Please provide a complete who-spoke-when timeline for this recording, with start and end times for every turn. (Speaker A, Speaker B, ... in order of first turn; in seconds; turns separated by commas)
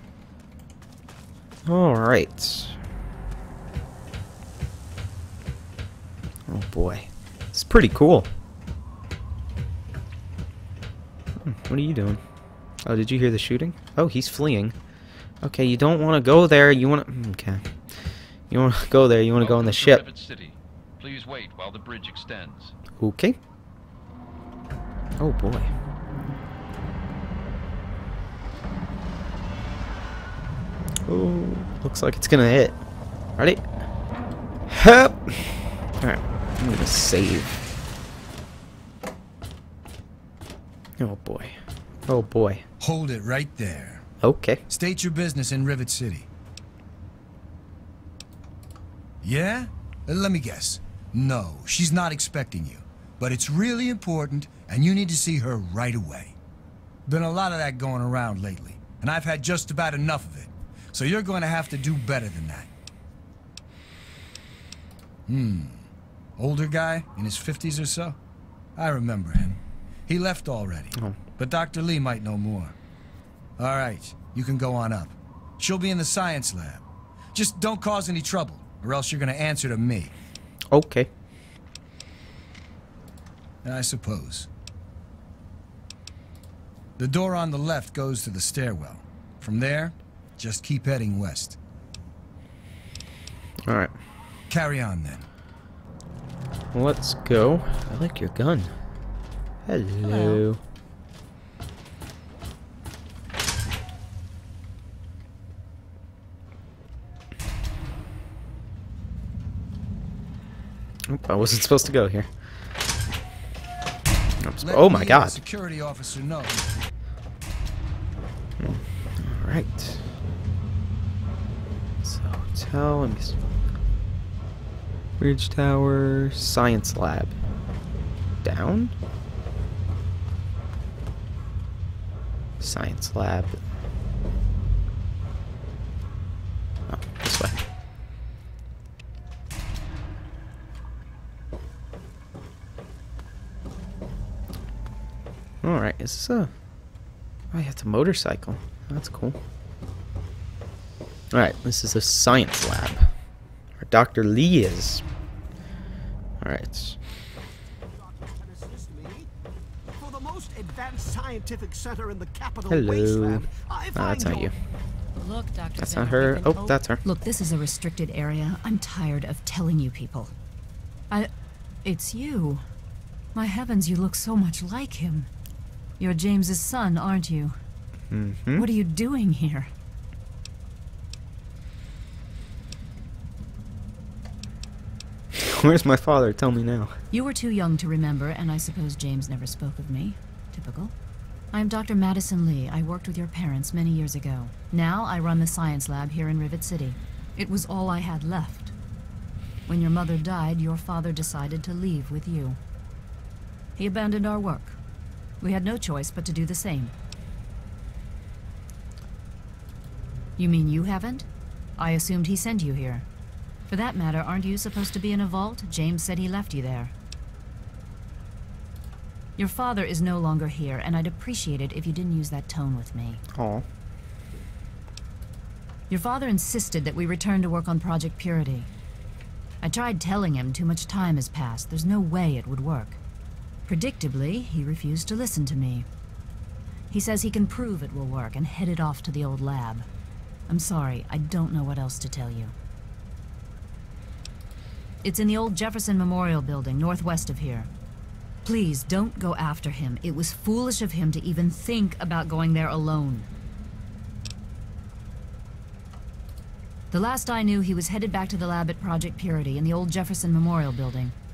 Speaker A: 1.7-2.8, Speaker A: 6.5-8.3, Speaker A: 11.4-12.2, Speaker A: 12.8-14.8, Speaker A: 15.4-17.6, Speaker A: 18.5-20.1, Speaker B: 19.4-22.8, Speaker A: 23.0-23.4, Speaker A: 25.2-25.7, Speaker A: 31.1-32.8, Speaker A: 33.4-33.6, Speaker A: 34.7-37.5, Speaker A: 41.0-41.6, Speaker A: 42.1-42.6, Speaker C: 42.8-44.1, Speaker A: 44.2-44.6, Speaker C: 44.7-46.3, Speaker C: 49.2-56.4, Speaker C: 57.1-62.7, Speaker C: 65.3-65.8, Speaker C: 66.4-68.2, Speaker C: 68.8-72.8, Speaker C: 73.6-80.1, Speaker A: 80.7-81.1, Speaker C: 83.6-84.5, Speaker C: 87.0-91.6, Speaker A: 93.7-93.9, Speaker C: 94.5-95.2, Speaker A: 96.7-98.7, Speaker A: 99.7-100.6, Speaker D: 100.0-100.4, Speaker A: 111.1-112.3, Speaker A: 114.4-115.4, Speaker C: 114.6-116.9, Speaker A: 118.6-120.0, Speaker A: 122.0-123.4, Speaker A: 125.2-127.4, Speaker A: 128.4-128.9, Speaker A: 132.6-133.6, Speaker A: 136.9-137.6, Speaker A: 145.6-146.5, Speaker A: 147.5-149.4, Speaker A: 151.3-153.1, Speaker A: 153.8-155.0, Speaker A: 156.4-157.0, Speaker E: 158.4-159.2, Speaker E: 160.0-164.5, Speaker A: 162.7-164.6, Speaker D: 165.2-166.8, Speaker A: 165.8-167.0, Speaker F: 167.0-170.3, Speaker F: 171.8-172.6, Speaker F: 173.3-175.3, Speaker F: 176.0-177.6, Speaker A: 178.1-178.7, Speaker F: 178.6-179.7, Speaker A: 185.3-187.0, Speaker F: 187.1-190.9, Speaker F: 191.5-198.7, Speaker F: 199.7-202.6, Speaker F: 203.8-204.8, Speaker F: 205.4-206.9, Speaker F: 210.4-213.1, Speaker F: 213.7-216.9, Speaker F: 219.4-223.2, Speaker A: 223.3-223.7, Speaker F: 225.9-228.7, Speaker F: 229.6-233.0, Speaker F: 233.7-235.9, Speaker F: 236.9-239.9, Speaker F: 240.5-242.5, Speaker F: 245.0-247.7, Speaker F: 248.4-253.3, Speaker F: 256.9-261.1